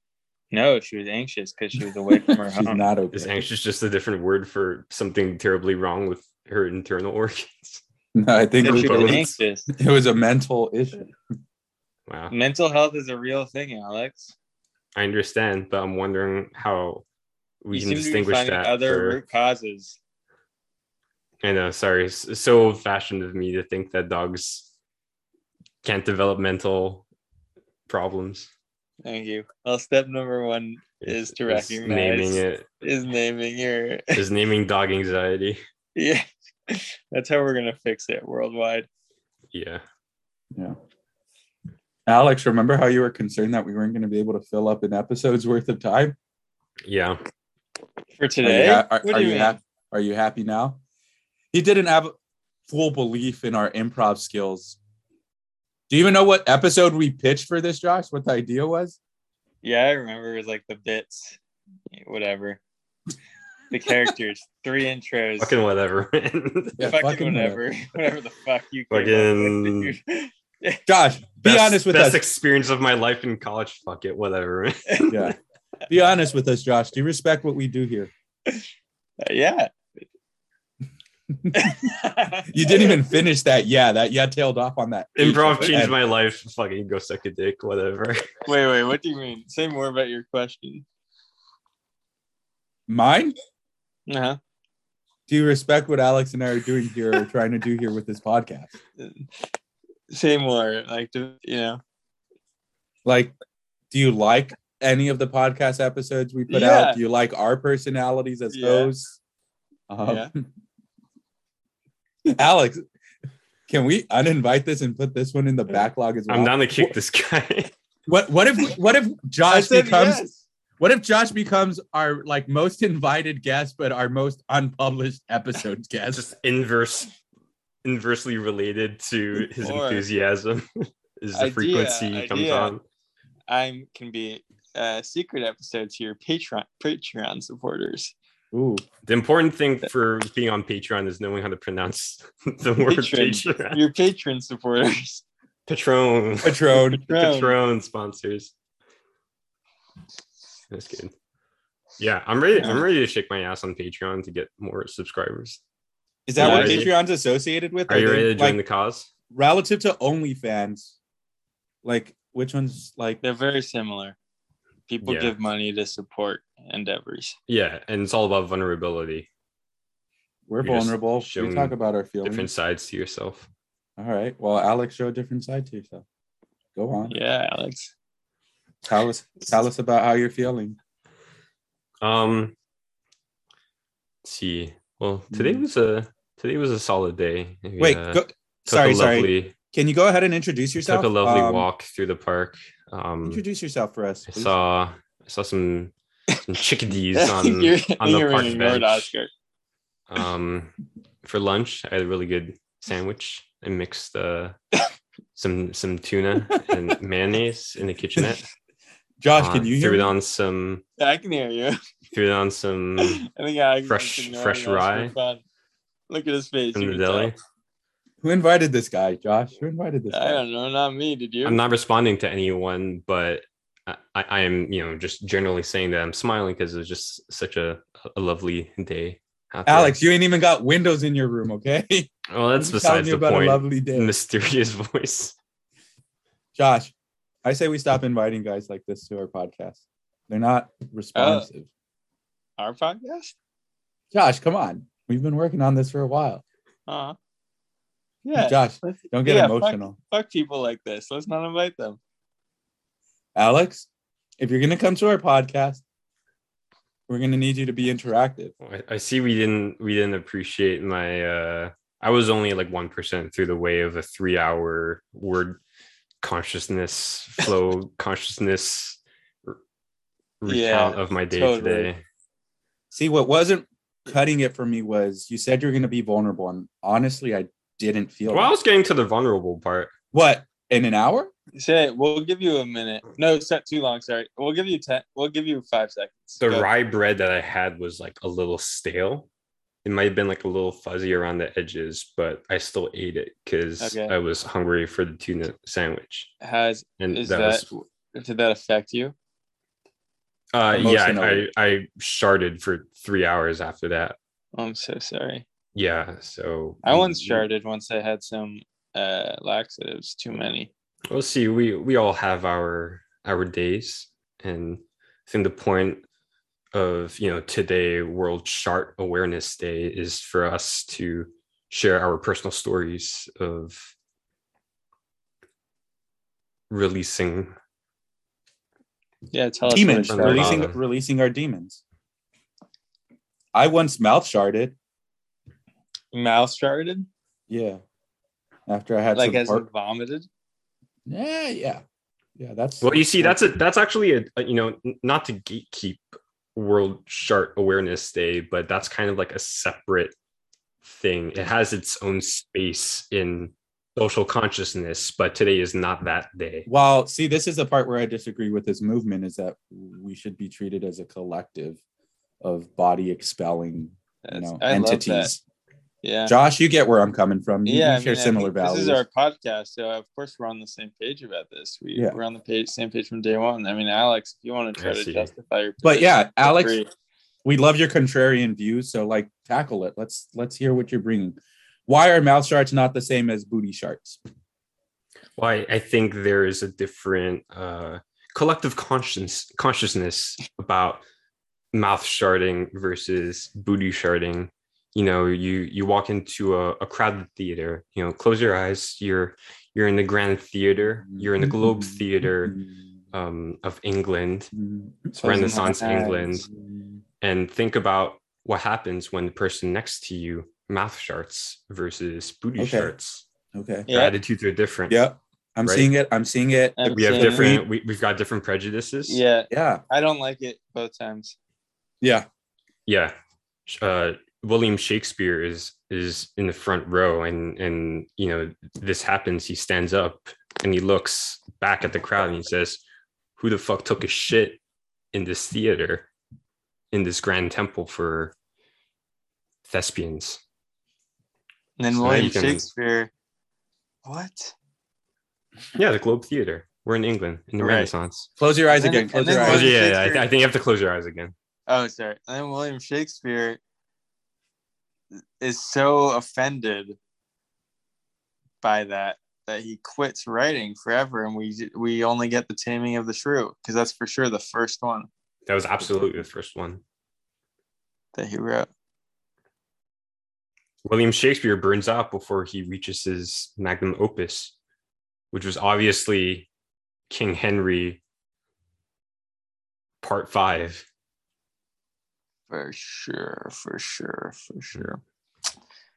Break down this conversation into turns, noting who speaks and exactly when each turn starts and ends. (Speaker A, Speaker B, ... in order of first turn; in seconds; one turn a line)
Speaker A: 0.5-2.9
Speaker B: 2.3-3.5
Speaker C: 3.1-7.8
Speaker B: 8.2-11.1
Speaker C: 8.6-9.3
Speaker A: 8.6-9.7
Speaker C: 12.1-12.3
Speaker A: 12.3-14.3
Speaker C: 14.9-17.1
Speaker C: 17.6-19.2
Speaker A: 17.7-20.0
Speaker C: 21.4-24.7
Speaker C: 25.8-27.0
Speaker C: 27.9-28.5
Speaker A: 29.0-34.2
Speaker C: 31.0-32.7
Speaker C: 34.1-35.6
Speaker A: 36.0-38.9
Speaker C: 39.5-39.8
Speaker B: 42.1-46.2
Speaker C: 46.9-47.2
Speaker A: 48.2-49.5
Speaker B: 48.4-50.8
Speaker B: 51.5-52.1
Speaker B: 52.7-54.8
Speaker B: 55.9-59.0
Speaker A: 59.6-61.4
Speaker A: 61.9-62.6
Speaker A: 63.7-65.5
Speaker C: 65.4-66.9
Speaker B: 66.8-67.6
Speaker A: 66.8-70.8
Speaker C: 68.9-69.9
Speaker B: 70.9-72.2
Speaker C: 71.4-75.3
Speaker A: 74.9-75.2
Speaker B: 75.1-75.4
Speaker B: 75.9-78.1
Speaker A: 79.2-79.7
Speaker B: 81.3-81.9
Speaker A: 81.5-83.0
Speaker B: 82.5-86.0
Speaker C: 85.2-88.3
Speaker A: 88.5-90.8
Speaker B: 92.9-93.3
Speaker A: 94.1-94.4
Speaker B: 95.3-98.7
Speaker A: 99.0-99.3
Speaker A: 100.1-101.8
Speaker B: 103.0-103.3
Speaker B: 103.9-109.2
Speaker A: 106.5-107.0
Speaker A: 108.5-108.9
Speaker B: 109.9-110.5
Speaker A: 110.0-110.3
Speaker B: 112.2-112.8
Speaker B: 113.7-116.9
Speaker C: 116.3-117.7
Speaker B: 118.1-120.2
Speaker A: 119.5-120.4
Speaker B: 120.8-126.3
Speaker C: 126.1-127.1
Speaker C: 127.8-132.8
Speaker A: 129.6-130.1
Speaker A: 131.3-132.7
Speaker A: 133.5-138.1
Speaker B: 138.5-138.8
Speaker C: 139.1-143.8
Speaker A: 142.8-145.2
Speaker C: 145.7-148.5
Speaker B: 146.4-147.0
Speaker A: 146.9-147.6
Speaker C: 150.7-151.1
Speaker C: 152.0-155.6
Speaker B: 156.3-158.6
Speaker C: 156.4-156.9
Speaker A: 156.4-156.9
Speaker C: 157.9-159.1
Speaker B: 159.3-160.9
Speaker B: 161.8-163.2
Speaker A: 163.2-164.2
Speaker A: 164.9-167.4
Speaker C: 165.0-165.3
Speaker C: 167.5-169.3
Speaker B: 170.5-172.5
Speaker C: 170.6-173.5
Speaker B: 174.0-176.1
Speaker B: 176.8-177.2
Speaker A: 177.1-177.9
Speaker B: 178.8-180.8
Speaker C: 182.0-182.6
Speaker C: 184.2-189.5
Speaker B: 185.3-185.6
Speaker B: 187.8-191.7
Speaker C: 190.8-193.4
Speaker B: 193.2-194.6
Speaker C: 194.3-195.9
Speaker C: 196.4-199.1
Speaker A: 197.1-199.3
Speaker C: 200.1-204.6
Speaker C: 205.4-208.4
Speaker B: 209.2-210.1
Speaker C: 209.4-210.8
Speaker A: 211.0-211.8
Speaker C: 212.1-213.2
Speaker A: 213.0-215.4
Speaker C: 213.9-215.1
Speaker A: 216.1-217.3
Speaker C: 216.8-217.4
Speaker B: 218.2-220.4
Speaker A: 220.1-221.6
Speaker C: 221.4-230.0
Speaker B: 229.7-234.1
Speaker C: 232.3-235.4
Speaker B: 236.6-236.9
Speaker B: 237.4-241.7
Speaker A: 241.2-241.5
Speaker A: 242.6-243.3
Speaker B: 244.1-246.4
Speaker A: 246.9-247.2
Speaker A: 248.2-252.0
Speaker B: 248.4-249.9
Speaker B: 253.3-253.9
Speaker B: 254.4-255.8
Speaker B: 257.1-258.5
Speaker C: 258.6-265.6
Speaker C: 266.2-269.6
Speaker C: 270.4-272.0
Speaker A: 270.5-271.9
Speaker B: 272.9-278.5
Speaker C: 278.3-279.9
Speaker B: 280.1-281.3
Speaker A: 281.6-286.7
Speaker C: 286.4-289.3
Speaker C: 289.8-296.3
Speaker A: 293.8-294.1
Speaker A: 296.4-299.1
Speaker C: 297.0-297.7
Speaker C: 300.5-304.2
Speaker B: 300.7-301.5
Speaker A: 304.5-305.4
Speaker C: 305.8-307.4
Speaker A: 306.8-310.7
Speaker C: 311.1-316.0
Speaker C: 316.7-323.9
Speaker C: 326.7-327.6
Speaker A: 329.3-330.6
Speaker B: 329.7-331.8
Speaker C: 330.1-330.8
Speaker B: 333.5-334.8
Speaker A: 336.1-337.1
Speaker B: 337.5-337.8
Speaker B: 338.7-339.6
Speaker A: 339.1-340.3
Speaker B: 341.1-341.8
Speaker B: 342.4-343.5
Speaker C: 342.8-350.1
Speaker C: 350.8-356.7
Speaker B: 356.7-361.8
Speaker B: 362.4-365.4
Speaker A: 364.2-365.3
Speaker A: 366.0-366.4
Speaker B: 366.3-369.0
Speaker A: 367.7-376.9
Speaker C: 374.8-375.3
Speaker B: 375.8-376.8
Speaker B: 377.4-384.2
Speaker C: 385.4-391.0
Speaker C: 391.7-402.6
Speaker B: 401.1-402.8
Speaker C: 403.1-404.5
Speaker B: 404.5-405.8
Speaker C: 405.2-406.5
Speaker A: 405.2-406.4
Speaker C: 407.2-413.3
Speaker B: 412.6-412.9
Speaker B: 413.5-413.9
Speaker A: 413.9-414.2
Speaker C: 413.9-415.0
Speaker B: 414.9-417.7
Speaker C: 415.6-415.9
Speaker A: 416.8-417.5
Speaker C: 416.9-419.2
Speaker A: 419.1-421.4
Speaker B: 419.5-419.8
Speaker B: 422.0-422.3
Speaker C: 422.9-423.1
Speaker C: 423.7-432.8
Speaker C: 433.4-434.6
Speaker C: 435.1-436.1
Speaker C: 436.9-438.4
Speaker C: 439.7-440.4
Speaker A: 441.8-443.1
Speaker C: 441.9-442.6
Speaker A: 444.1-444.6
Speaker C: 445.8-448.3
Speaker A: 447.6-447.9
Speaker B: 448.4-449.7
Speaker A: 448.7-450.3
Speaker C: 449.4-451.4
Speaker A: 451.7-453.6
Speaker A: 455.4-457.0
Speaker A: 458.6-465.1
Speaker C: 465.5-466.8
Speaker B: 465.8-466.2
Speaker A: 468.1-468.7
Speaker C: 470.9-474.5
Speaker C: 475.3-476.5
Speaker C: 477.1-478.0
Speaker C: 480.0-480.9
Speaker A: 482.5-485.0